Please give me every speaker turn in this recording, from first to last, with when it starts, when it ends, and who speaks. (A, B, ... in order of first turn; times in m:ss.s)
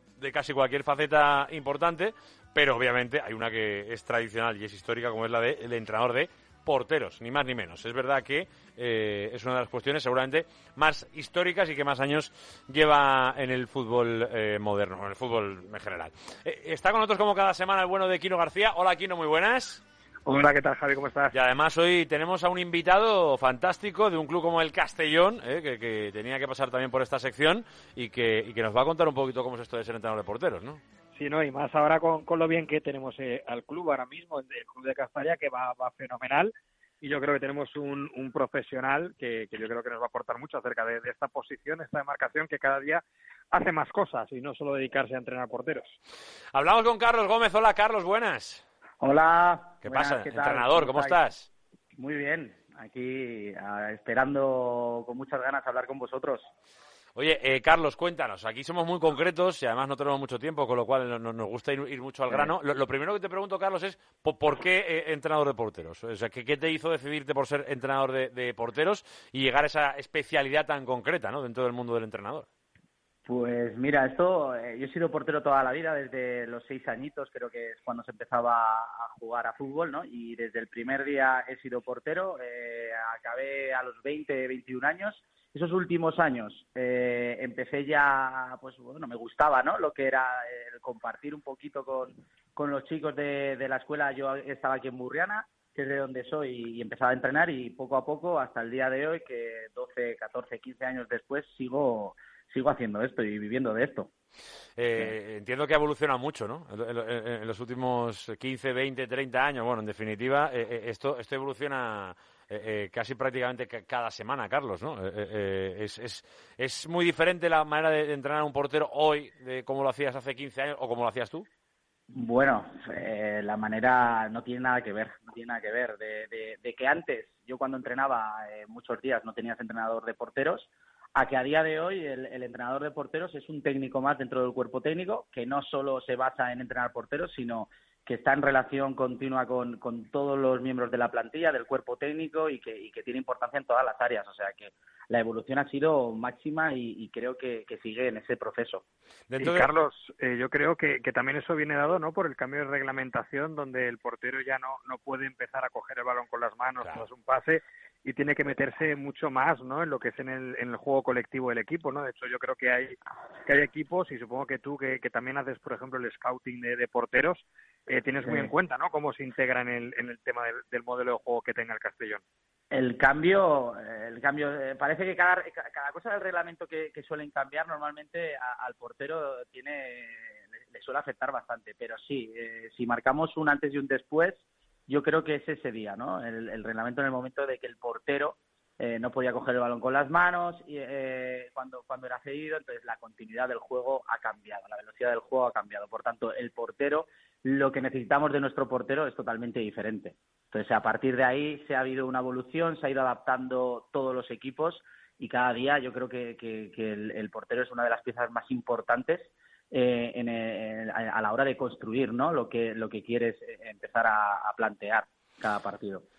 0:00.2-0:19.8 A
0:20.2-0:21.3 B
0:21.3-0:30.8 A
0:31.1-0:46.0 B
0:46.5-0:48.6 A
0:49.0-0:51.2 C
0:49.8-0:51.5 A
0:52.0-0:56.5 C
0:57.2-1:12.4 A
1:13.2-1:44.1 C
1:44.8-2:01.5 A
2:02.1-2:28.8 C
2:29.3-2:29.7 A
2:29.4-2:52.2 B
2:48.2-2:48.5 C
2:52.7-3:36.0 C